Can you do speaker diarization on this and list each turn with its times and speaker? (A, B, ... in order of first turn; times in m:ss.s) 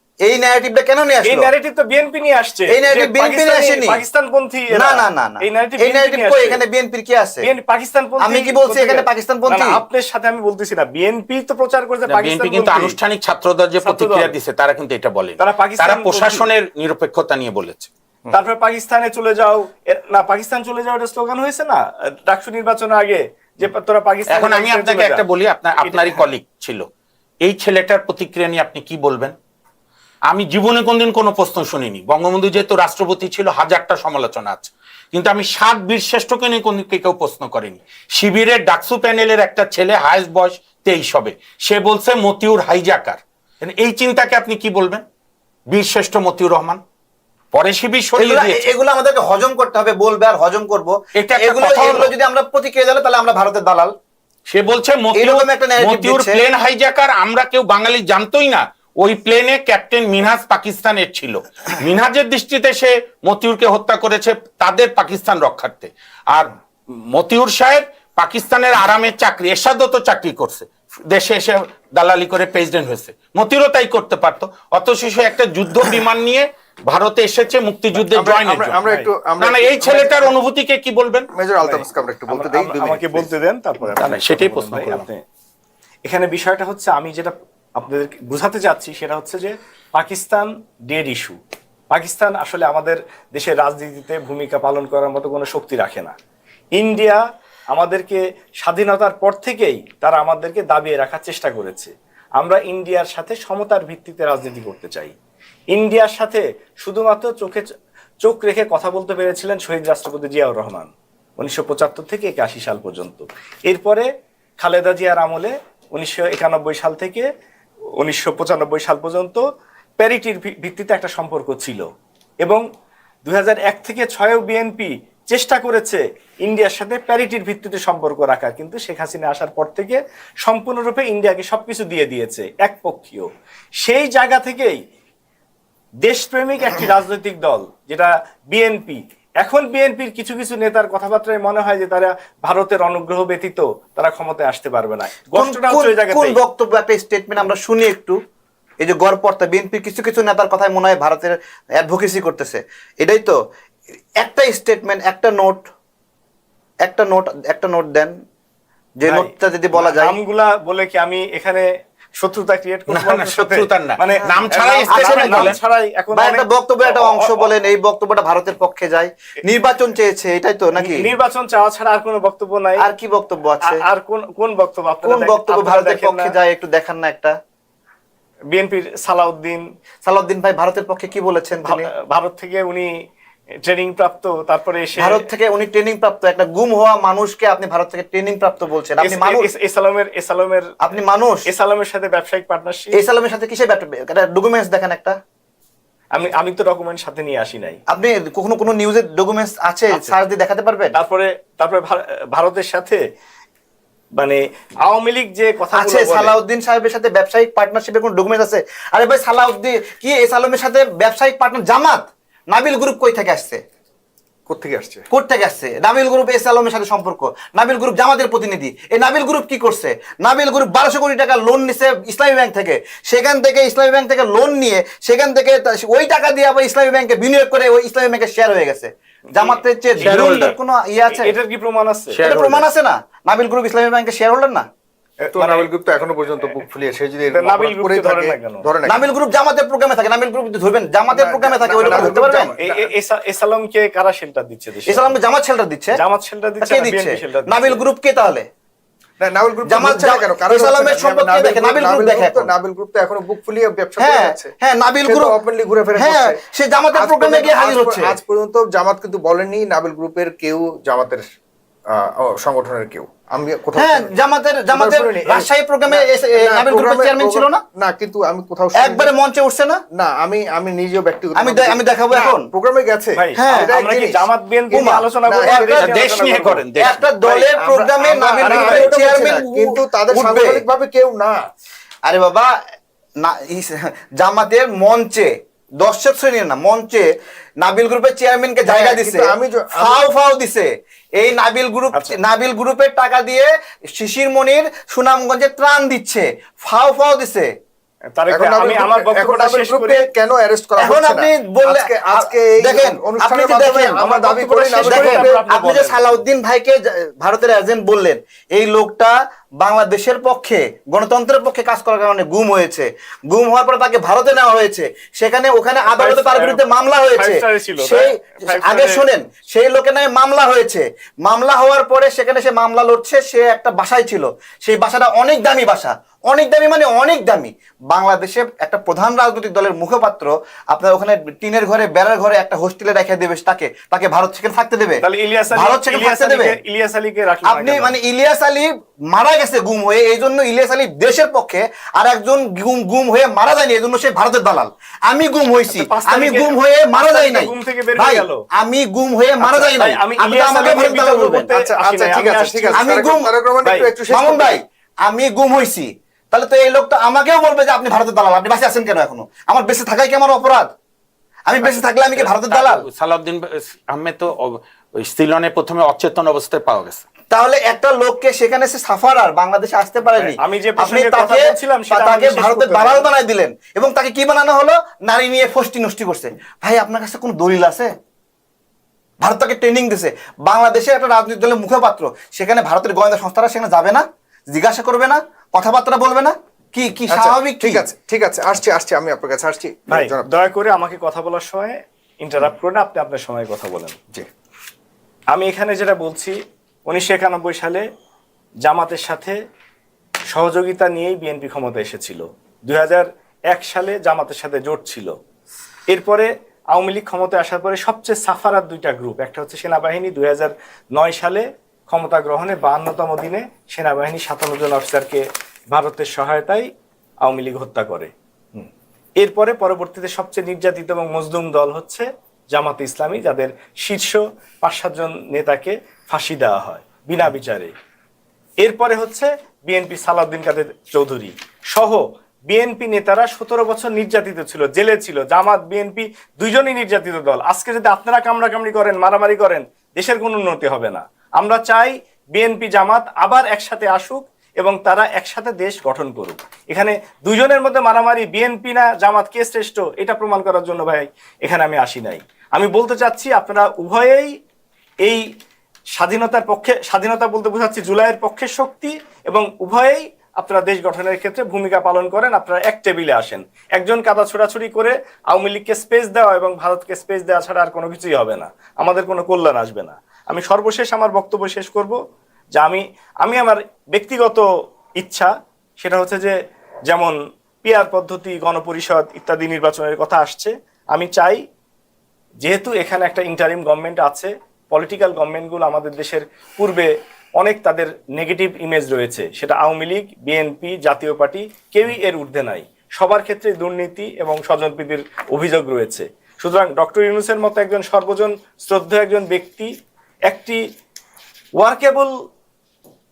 0:00.3-0:01.5 A
0:01.2-0:06.6 B
0:02.7-0:04.0 A
0:04.7-0:07.4 A
0:07.4-0:12.9 B
0:08.2-0:09.8 A
0:12.1-0:17.9 C
0:13.8-0:14.3 B
0:15.4-0:16.5 B
0:18.3-0:25.2 B
0:24.3-0:26.8 C
0:25.8-0:26.2 B
0:27.4-0:29.4 C
0:30.3-0:45.0 C
0:45.7-0:46.8 C
0:47.5-0:48.7 C
0:48.2-0:53.9 A
0:51.2-0:52.1 C
0:54.5-1:18.8 C
0:55.1-0:56.4 A
1:18.0-1:20.4 D
1:18.8-1:19.1 B
1:19.4-1:21.3 C
1:21.3-1:23.3 D
1:21.6-1:25.2 B
1:24.0-1:25.1 C
1:26.0-1:31.4 B
1:31.9-1:36.1 B
1:36.8-1:45.1 B
1:45.7-1:47.7 B
1:48.2-1:54.1 B
1:54.6-1:57.3 B
1:58.0-1:59.4 B
2:00.0-2:01.9 B
2:03.2-2:14.8 B
2:16.0-2:26.4 B
2:25.4-2:28.2 A
2:28.8-2:33.4 A
2:34.2-2:35.6 A
2:36.8-2:38.1 A
2:39.0-2:40.2 A
2:39.1-2:47.5 B
2:42.9-2:45.6 C
2:44.9-2:45.6 A
2:46.1-2:51.1 A
2:50.8-2:52.9 B
2:52.8-2:53.8 A
2:53.6-2:56.3 B
2:55.0-2:57.3 A
2:58.5-2:59.7 B
3:00.0-3:01.9 A
3:01.6-3:02.9 B
3:03.6-3:05.2 B
3:05.0-3:09.5 A
3:09.0-3:10.7 B
3:10.8-3:11.4 A
3:11.5-3:13.0 B
3:12.9-3:15.2 A
3:16.2-3:17.8 B
3:17.9-3:21.0 A
3:21.0-3:23.0 B
3:24.2-3:26.4 B
3:25.7-3:33.6 A
3:34.5-3:35.0 D
3:35.1-3:51.3 A
3:49.4-3:50.5 B
3:50.0-3:50.5 C
3:51.1-3:52.2 B
3:52.1-3:52.7 C
3:52.2-3:54.6 A
3:55.2-3:55.7 B
3:55.3-3:59.1 D
3:57.3-3:58.6 B
3:58.9-4:02.5 A
4:01.1-4:02.9 D
4:02.6-4:05.1 B
4:04.9-4:06.0 A
4:06.0-4:07.8 B
4:06.6-4:08.5 A
4:09.2-4:14.5 D
4:09.7-4:12.5 A
4:14.0-4:15.3 A
4:15.0-4:16.4 D
4:16.0-4:18.1 A
4:16.9-4:21.3 D
4:21.9-4:24.1 D
4:23.8-4:27.6 A
4:24.7-4:29.1 D
4:28.8-4:29.8 A
4:30.0-4:35.9 D
4:31.4-4:32.4 A
4:33.2-4:36.6 B
4:33.4-4:33.7 A
4:34.7-4:35.9 A
4:35.8-4:37.1 C
4:36.8-4:40.6 A
4:37.2-4:41.4 D
4:42.1-4:42.5 A
4:43.2-4:45.3 A
4:45.8-4:47.0 A
4:47.6-4:57.5 A
4:48.7-4:50.1 D
4:58.2-5:00.0 B
4:58.3-5:05.4 D
5:00.8-5:04.0 A
5:04.0-5:06.2 B
5:04.8-5:36.6 A
5:15.9-5:19.0 B
5:35.0-5:37.9 B
5:37.5-5:51.5 A
5:45.7-5:48.4 B
5:49.4-5:52.9 B
5:51.5-5:54.6 D
5:52.8-5:53.3 A
5:54.1-6:00.7 A
6:01.5-6:02.8 A
6:02.2-6:07.0 C
6:07.3-6:17.9 A
6:10.2-6:13.1 B
6:19.2-6:27.8 A
6:27.1-6:30.3 D
6:29.9-6:34.0 B
6:35.3-6:37.8 B
6:38.6-6:39.4 B
6:40.3-6:45.1 B
6:45.9-6:56.7 B
6:57.2-6:58.7 B
6:59.2-7:07.7 B
7:08.6-7:34.3 B
7:36.0-7:52.0 B
7:52.6-7:54.4 B
7:55.0-7:56.4 B
7:56.9-8:01.4 B
8:02.4-8:19.7 B
8:20.3-8:20.6 B
8:21.6-8:22.1 B